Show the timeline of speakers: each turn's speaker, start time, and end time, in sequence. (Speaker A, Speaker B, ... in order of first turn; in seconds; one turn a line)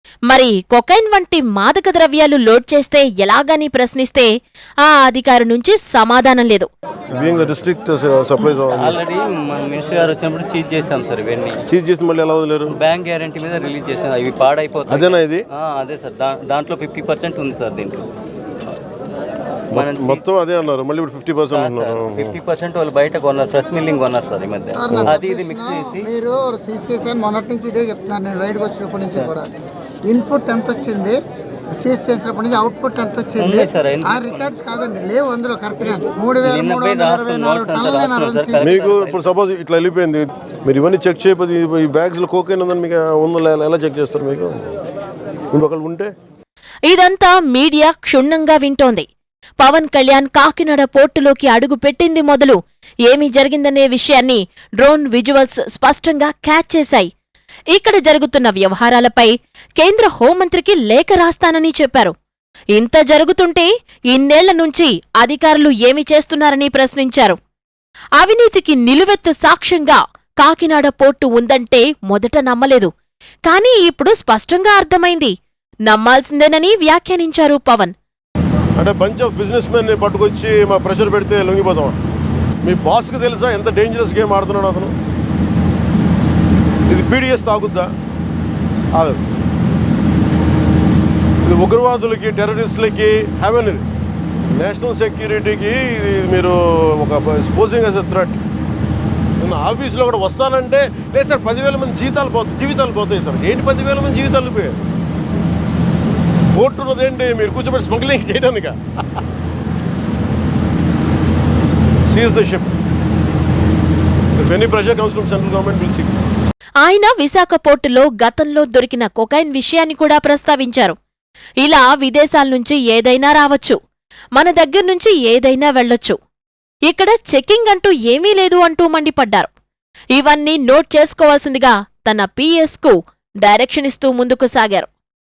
Speaker A: 0.3-4.3
Speaker A: 4.8-6.7
Speaker B: 7.2-9.0
Speaker C: 8.6-11.6
Speaker B: 11.7-12.8
Speaker C: 12.7-18.1
Speaker B: 14.9-15.5
Speaker C: 19.7-20.2
Speaker B: 19.7-22.4
Speaker C: 21.5-26.1
Speaker D: 24.8-29.5
Speaker B: 24.9-25.2
Speaker D: 30.1-31.2
Speaker D: 31.8-38.7
Speaker C: 33.4-34.7
Speaker C: 36.3-39.3
Speaker B: 38.6-44.6
Speaker B: 45.5-46.1
Speaker A: 46.9-49.1
Speaker A: 49.6-57.1
Speaker A: 57.7-62.1
Speaker A: 62.8-67.4
Speaker A: 68.2-72.9
Speaker A: 73.5-75.3
Speaker A: 75.9-77.9
Speaker B: 78.8-82.0
Speaker B: 82.7-85.0
Speaker B: 86.9-87.9
Speaker B: 89.0-89.2
Speaker B: 91.4-93.8
Speaker B: 94.6-98.4
Speaker B: 99.4-104.8
Speaker B: 106.5-108.8
Speaker B: 112.1-112.7
Speaker B: 114.4-116.1
Speaker A: 116.8-121.0
Speaker A: 121.6-123.8
Speaker A: 124.4-126.2
Speaker A: 126.9-129.5
Speaker A: 130.2-134.9